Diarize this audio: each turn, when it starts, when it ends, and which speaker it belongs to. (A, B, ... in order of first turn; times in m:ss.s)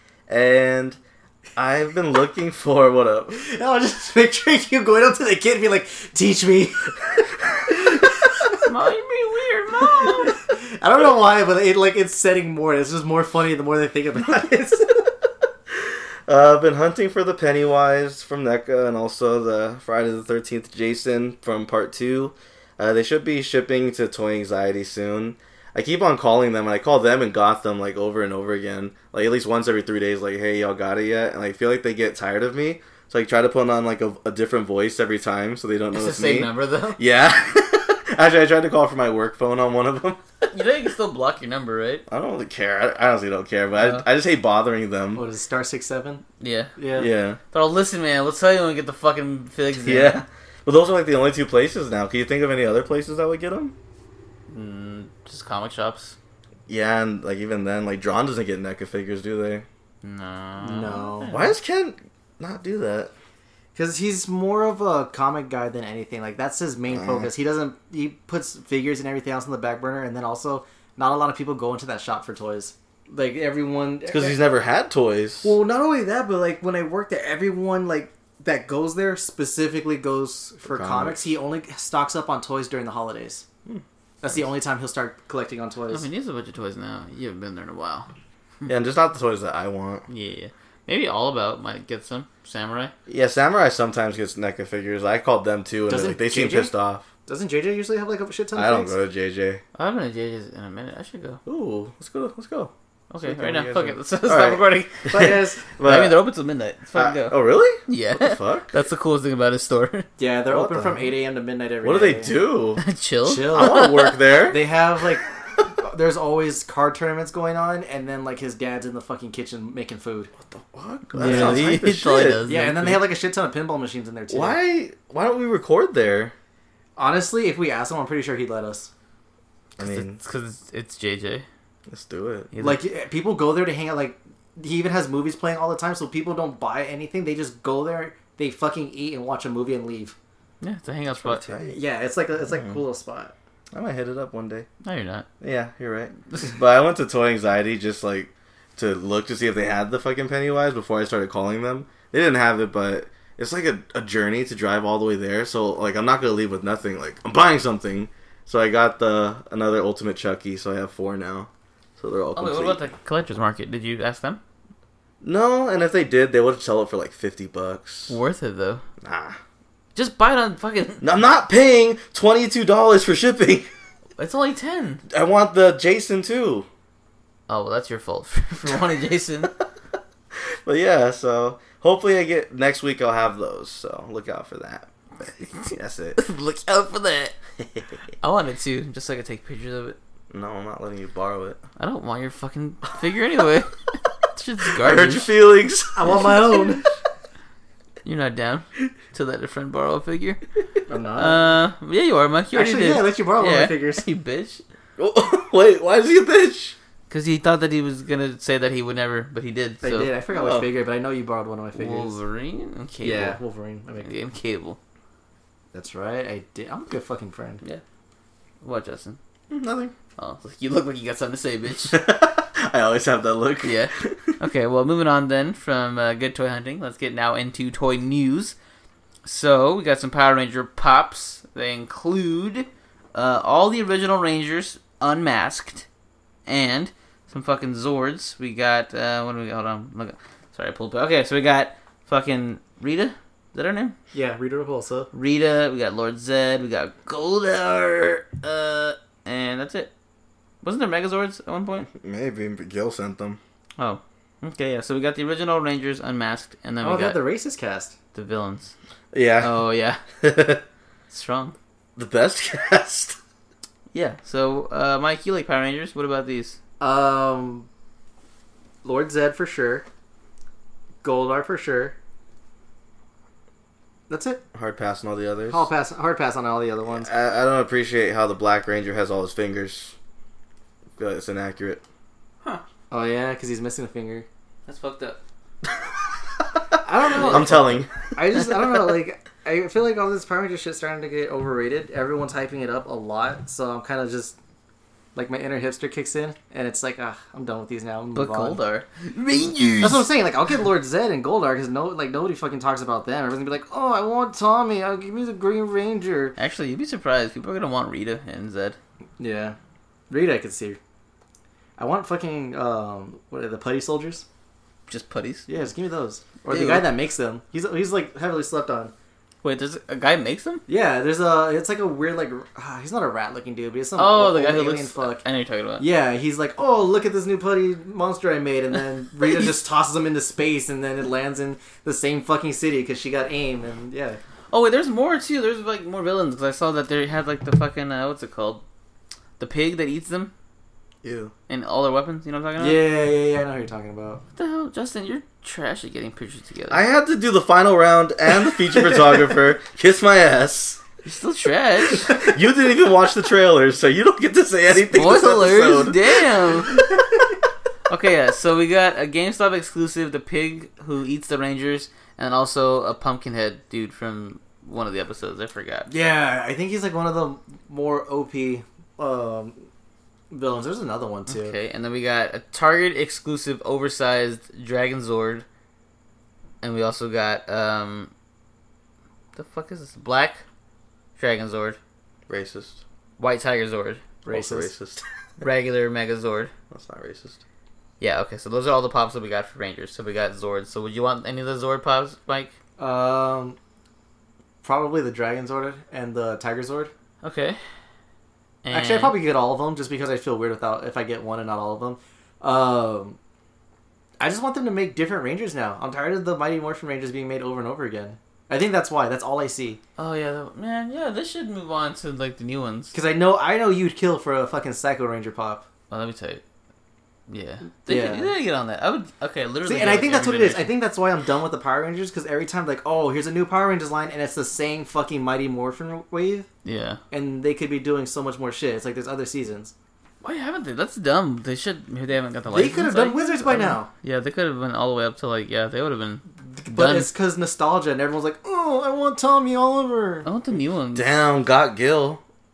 0:00.3-0:01.0 A
0:01.6-0:03.4 A
0:03.3-0:07.1 B
0:07.7-0:08.3 B
0:08.6-0:10.4 C
0:10.0-0:15.0 B
0:16.3-0:40.2 A
0:35.9-0:37.0 C
0:40.5-0:42.0 C
0:42.1-0:45.2 A
0:43.8-0:44.1 C
0:45.2-0:46.2 B
0:46.4-0:46.7 C
0:46.8-0:47.1 B
0:47.0-0:47.4 A
0:47.5-0:50.2 C
0:49.8-0:53.8 A
0:54.5-0:56.2 C
0:56.7-0:59.7 A
1:00.0-1:01.5 C
1:00.6-1:01.4 B
1:01.3-1:03.1 A
1:03.8-1:14.4 B
1:06.9-1:07.3 A
1:14.1-1:15.6 A
1:15.4-1:23.4 B
1:20.7-1:21.3 A
1:24.2-1:26.1 B
1:25.9-1:28.1 C
1:28.7-1:30.1 A
1:30.1-1:32.9 C
1:33.1-1:37.1 A
1:35.9-1:36.7 B
1:37.3-1:39.0 B
1:38.6-1:39.6 A
1:39.8-1:41.4 C
1:41.4-1:46.2 A
1:43.1-1:50.1 C
1:45.1-1:45.6 B
1:46.9-1:48.7 A
1:50.2-1:52.4 B
1:50.5-1:51.1 A
1:51.8-1:52.8 A
1:52.8-1:54.1 C
1:53.2-1:53.9 B
1:53.5-1:54.6 A
1:54.5-2:00.3 B
2:00.4-2:02.4 A
2:01.2-2:01.8 B
2:01.2-2:03.1 C
2:02.5-2:04.6 B
2:04.3-2:06.3 A
2:07.0-2:08.9 B
2:09.8-2:10.2 A
2:09.8-2:11.5 C
2:11.9-2:12.5 A
2:12.5-2:12.8 C
2:12.6-2:20.2 B
2:20.6-2:21.4 C
2:21.1-2:21.8 A
2:21.6-2:23.3 B
2:23.7-2:24.7 A
2:24.8-2:25.3 C
2:25.4-2:42.8 A
2:42.4-2:44.4 C
2:45.2-2:48.2 A
2:48.1-2:48.8 C
2:49.0-2:49.4 A
2:50.0-2:51.0 C
2:51.0-2:53.7 A
2:54.2-2:55.0 C
2:55.1-2:56.7 A
2:57.5-2:59.5 C
3:00.6-3:04.9 A
3:05.6-3:06.2 A
3:06.2-3:07.4 C
3:08.2-3:10.0 C
3:10.3-3:11.6 A
3:11.8-3:15.3 C
3:14.8-3:16.6 A
3:16.0-3:16.8 B
3:16.1-3:16.6 C
3:18.0-3:20.4 C
3:20.9-3:21.6 B
3:21.2-3:24.6 C
3:22.5-3:24.0 B
3:25.0-3:26.8 A
3:27.1-3:30.1 C
3:29.8-3:32.2 B
3:30.3-3:30.7 A
3:31.8-3:33.4 C
3:33.0-3:34.1 B
3:34.0-3:34.8 C
3:35.7-3:37.6 B
3:38.6-3:39.2 C
3:39.5-3:39.9 A
3:40.2-3:42.0 C
3:41.9-3:44.4 A
3:43.6-3:48.6 C
3:49.2-3:55.9 C
3:56.5-4:04.0 C
4:04.1-4:05.1 B
4:05.1-4:09.9 C
4:10.6-4:11.9 C
4:12.0-4:13.4 A
4:13.8-4:17.2 C
4:16.8-4:18.0 B
4:18.1-4:18.7 C
4:19.1-4:19.6 A
4:19.4-4:20.0 C
4:20.2-4:20.6 A
4:21.1-4:21.6 C
4:22.0-4:23.2 A
4:23.9-4:26.6 C
4:26.8-4:27.7 B
4:28.8-4:29.8 B
4:31.0-4:32.0 B
4:34.1-4:34.4 B
4:34.5-4:35.7 A
4:35.5-4:37.1 B
4:37.0-4:40.0 A
4:41.0-4:41.8 A
4:42.9-4:44.3 B
4:44.7-4:45.2 C
4:46.8-4:54.4 B
4:47.1-4:47.6 C
4:47.2-4:48.2 A
4:55.2-4:58.6 B
4:58.1-5:00.1 C
4:59.8-5:06.4 B
5:06.4-5:08.8 C
5:09.2-5:09.6 B
5:10.1-5:10.8 B
5:11.8-5:14.2 B
5:14.9-5:15.5 C
5:15.5-5:18.9 B
5:16.5-5:16.9 C
5:19.4-5:20.6 C
5:20.7-5:25.2 B
5:24.0-5:25.9 C
5:25.8-5:34.2 B
5:34.5-5:38.6 C
5:39.4-5:40.3 C
5:41.0-5:41.3 A
5:41.5-5:42.8 C
5:42.6-5:44.2 B
5:44.4-5:46.9 C
5:46.7-5:50.8 A
5:51.0-5:52.2 C
5:52.2-5:56.5 A
5:54.8-5:56.8 C
5:57.9-6:05.9 C
6:05.9-6:09.6 B
6:10.3-6:11.6 B
6:11.3-6:15.4 C
6:16.6-6:18.1 C
6:19.4-6:20.4 C
6:21.2-6:21.8 C
6:22.3-6:22.8 A
6:23.2-6:24.0 C
6:24.2-6:24.7 B
6:24.3-6:25.0 A
6:25.4-6:26.5 C
6:26.7-6:27.4 A
6:28.0-6:32.5 C
6:32.8-6:33.6 B
6:34.6-6:36.9 B
6:37.2-6:37.6 C
6:38.6-6:39.2 C
6:38.7-6:43.2 B
6:44.2-6:49.8 B
6:50.0-6:52.9 C
6:52.9-6:55.6 B
6:55.9-6:56.4 C
6:57.3-7:00.7 C
6:57.9-6:58.3 B
6:59.7-7:06.5 B
7:06.6-7:07.0 C
7:07.1-7:09.7 B
7:10.2-7:17.1 C
7:12.5-7:13.9 B
7:16.6-7:20.3 B
7:20.2-7:21.2 C
7:20.9-7:22.2 A